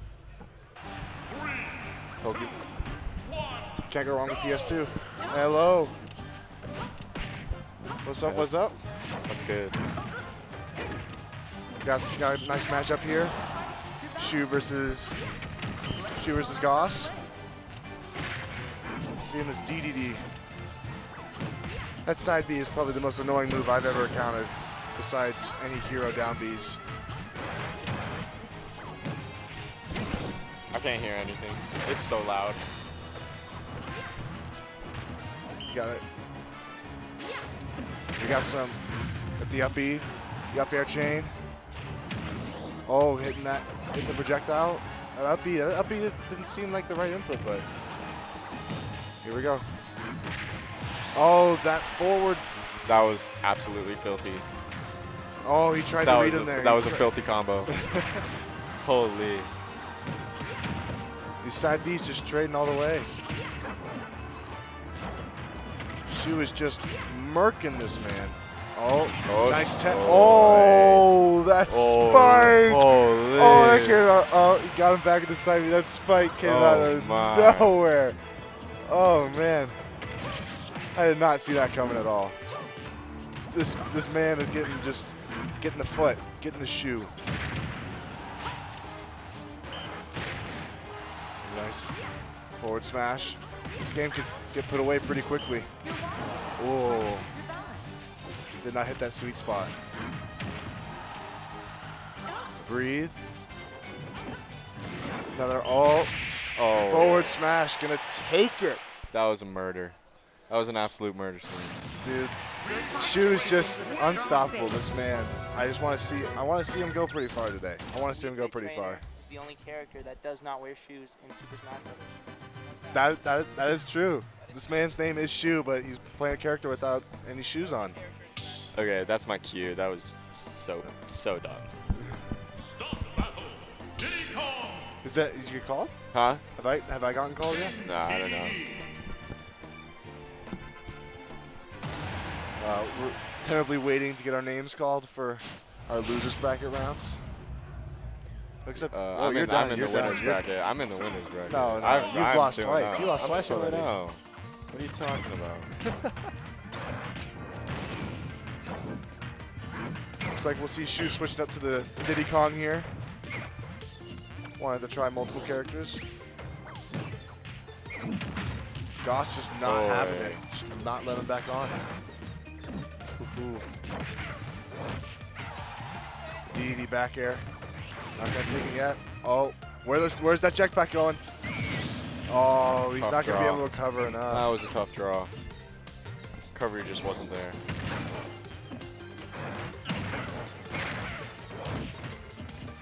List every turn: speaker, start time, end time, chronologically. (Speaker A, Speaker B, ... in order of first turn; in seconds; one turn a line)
Speaker A: 2.2-2.6
Speaker A: 3.9-6.0
Speaker A: 8.0-8.8
Speaker B: 8.2-8.6
Speaker B: 9.2-9.8
Speaker A: 11.8-13.4
Speaker A: 14.1-15.2
Speaker A: 16.1-17.1
Speaker A: 19.2-20.2
Speaker A: 22.0-26.8
Speaker B: 30.7-32.6
Speaker A: 35.7-36.0
Speaker A: 38.2-38.8
Speaker A: 39.4-41.4
Speaker A: 42.9-47.6
Speaker A: 49.2-49.7
Speaker A: 51.1-52.4
Speaker B: 52.8-54.5
Speaker A: 55.4-57.1
Speaker B: 56.0-57.7
Speaker A: 57.7-58.2
Speaker B: 58.8-59.5
Speaker A: 61.4-63.1
Speaker A: 66.0-78.2
Speaker B: 69.2-71.1
Speaker B: 71.7-74.1
Speaker B: 76.4-77.7
Speaker A: 78.8-79.8
Speaker A: 80.9-82.4
Speaker A: 83.5-87.1
Speaker A: 91.4-92.0
Speaker A: 92.6-95.7
Speaker A: 96.6-97.3
Speaker A: 98.6-99.8
Speaker A: 102.6-103.2
Speaker A: 105.3-106.1
Speaker B: 106.5-107.5
Speaker A: 106.8-108.8
Speaker B: 109.1-111.8
Speaker A: 112.0-119.0
Speaker C: 118.1-122.2
Speaker A: 122.9-128.0
Speaker B: 128.7-131.7
Speaker A: 135.0-135.9
Speaker B: 136.1-136.4
Speaker A: 136.5-137.8
Speaker B: 137.8-138.7
Speaker A: 142.6-147.2
Speaker A: 148.6-150.4
Speaker B: 148.9-155.7
Speaker A: 151.5-153.9
Speaker A: 160.3-162.9
Speaker A: 164.6-166.0
Speaker A: 169.0-171.9
Speaker B: 169.6-170.4
Speaker A: 173.2-173.7
Speaker A: 176.5-177.4
Speaker A: 178.1-181.2
Speaker A: 182.3-184.5
Speaker B: 182.9-183.7
Speaker B: 184.3-185.3
Speaker B: 186.5-187.6